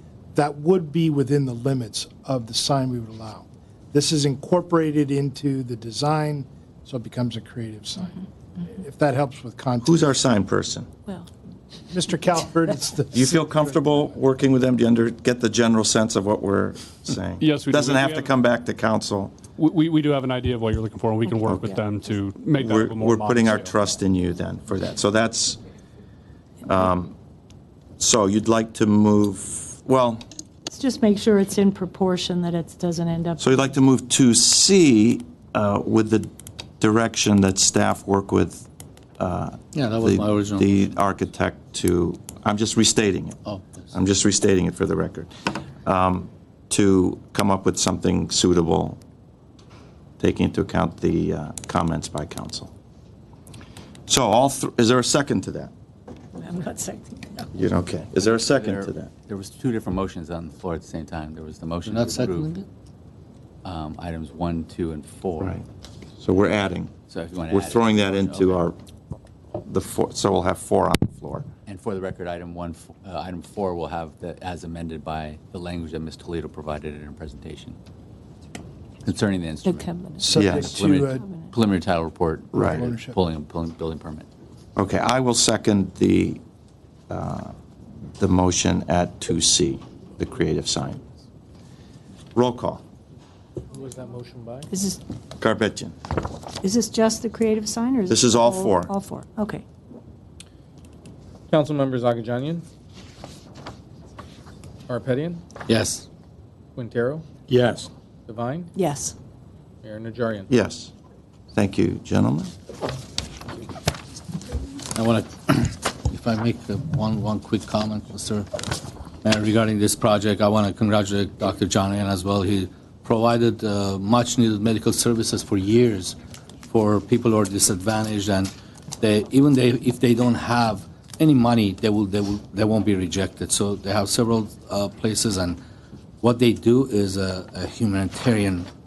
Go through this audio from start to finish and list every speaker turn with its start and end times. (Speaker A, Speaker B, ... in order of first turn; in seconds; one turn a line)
Speaker A: 0.3-10.2
Speaker B: 9.8-10.9
Speaker A: 11.9-14.1
Speaker B: 13.1-19.4
Speaker C: 17.4-18.4
Speaker C: 19.6-23.8
Speaker B: 21.4-21.8
Speaker B: 22.5-25.6
Speaker B: 26.6-27.1
Speaker B: 28.0-30.2
Speaker D: 30.7-33.5
Speaker B: 33.4-38.7
Speaker B: 39.2-43.4
Speaker E: 39.7-40.7
Speaker E: 43.5-43.9
Speaker B: 43.9-49.0
Speaker B: 50.2-52.7
Speaker B: 54.1-55.7
Speaker D: 56.4-57.5
Speaker B: 57.5-59.1
Speaker F: 58.2-62.5
Speaker E: 61.9-62.7
Speaker F: 63.6-65.6
Speaker B: 66.2-66.9
Speaker F: 67.1-68.7
Speaker B: 67.5-68.8
Speaker B: 69.7-71.5
Speaker F: 71.7-77.8
Speaker F: 79.0-84.3
Speaker D: 79.7-80.2
Speaker A: 80.2-81.2
Speaker B: 80.3-80.7
Speaker B: 82.5-82.9
Speaker A: 82.5-83.2
Speaker B: 84.8-86.4
Speaker B: 87.1-87.5
Speaker B: 88.2-91.0
Speaker B: 92.3-92.8
Speaker G: 93.7-94.7
Speaker D: 94.7-95.0
Speaker B: 95.4-96.0
Speaker D: 96.6-99.6
Speaker B: 98.1-98.9
Speaker G: 101.5-102.6
Speaker G: 104.9-105.4
Speaker E: 105.7-106.1
Speaker G: 106.8-107.2
Speaker B: 107.5-107.9
Speaker G: 108.3-108.7
Speaker D: 108.8-109.2
Speaker G: 109.8-110.5
Speaker B: 110.5-110.9
Speaker B: 111.5-112.5
Speaker E: 114.9-118.7
Speaker E: 119.2-126.2
Speaker E: 126.7-135.6
Speaker E: 136.2-138.7